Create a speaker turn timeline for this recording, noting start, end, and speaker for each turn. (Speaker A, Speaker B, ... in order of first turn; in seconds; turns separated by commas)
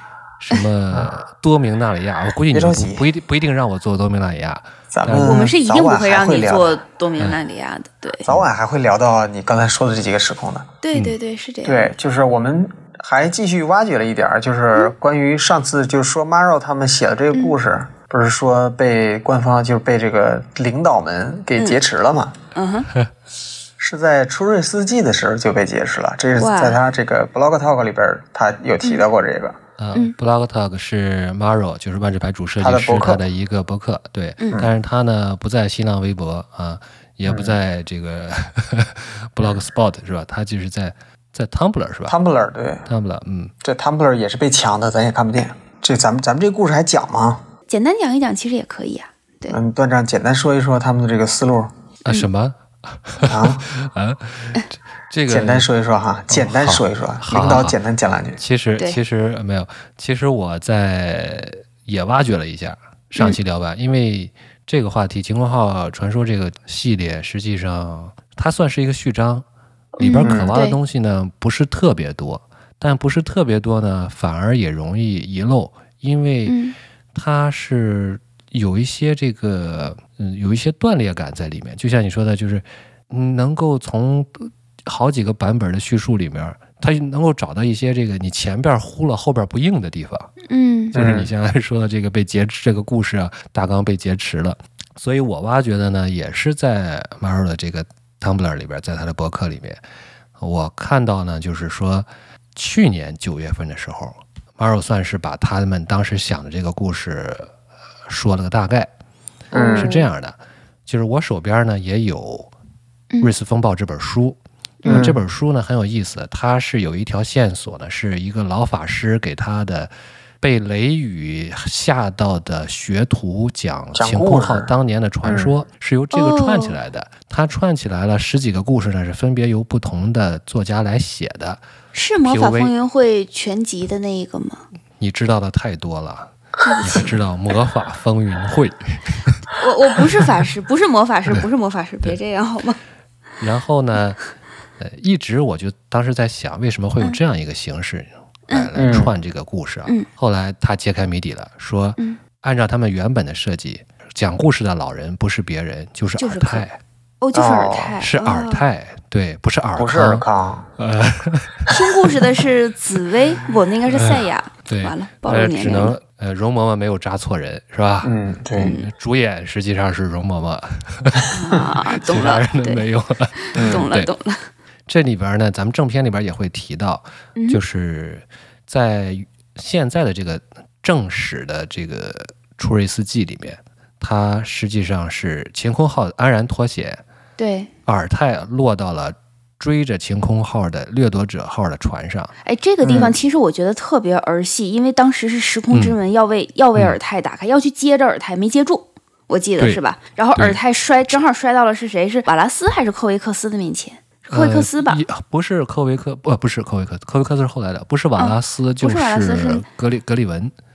Speaker A: 0.4-5.4, Speaker B: 2.5-3.1, Speaker B: 4.9-6.8, Speaker C: 5.2-8.3, Speaker B: 8.2-10.7, Speaker C: 10.8-11.9, Speaker B: 11.7-22.4, Speaker C: 22.6-22.9, Speaker B: 23.8-29.6, Speaker C: 26.4-26.8, Speaker A: 29.8-42.2, Speaker B: 32.6-33.2, Speaker B: 37.3-37.6, Speaker B: 42.1-42.9, Speaker A: 42.9-43.5, Speaker B: 43.6-47.4, Speaker C: 47.7-49.6, Speaker B: 49.5-51.7, Speaker A: 52.0-55.7, Speaker B: 53.3-53.7, Speaker B: 55.3-58.4, Speaker A: 56.3-57.8, Speaker A: 58.4-69.5, Speaker C: 70.0-70.8, Speaker A: 70.0-76.6, Speaker B: 70.2-70.6, Speaker C: 76.5-76.8, Speaker A: 77.2-90.3, Speaker C: 90.5-91.0, Speaker A: 90.9-99.8, Speaker B: 91.0-91.3, Speaker A: 100.4-107.5, Speaker A: 108.1-108.9, Speaker C: 109.5-110.1, Speaker A: 109.5-112.5, Speaker B: 109.5-109.9, Speaker A: 113.2-131.6, Speaker C: 114.8-115.1, Speaker B: 114.8-115.2, Speaker B: 123.9-125.5, Speaker C: 126.1-126.8, Speaker C: 131.9-134.6, Speaker A: 132.2-132.7, Speaker A: 135.0-139.4, Speaker C: 136.6-137.2, Speaker C: 139.6-142.8, Speaker A: 143.4-144.2, Speaker A: 144.8-156.8, Speaker B: 148.7-149.1, Speaker C: 156.2-156.7, Speaker C: 157.2-158.7, Speaker B: 157.3-158.0, Speaker A: 158.0-160.3, Speaker B: 159.8-160.7, Speaker A: 160.8-162.1, Speaker C: 161.7-166.0, Speaker A: 163.9-174.1, Speaker B: 168.0-168.7, Speaker C: 168.6-168.9, Speaker C: 171.3-174.5, Speaker B: 173.6-173.9, Speaker A: 174.9-187.0, Speaker C: 177.3-177.6, Speaker C: 187.4-187.7, Speaker A: 187.9-192.3, Speaker C: 192.4-205.0, Speaker B: 192.8-193.2, Speaker A: 195.7-196.0, Speaker A: 200.3-200.6, Speaker A: 204.3-210.5, Speaker C: 208.2-209.6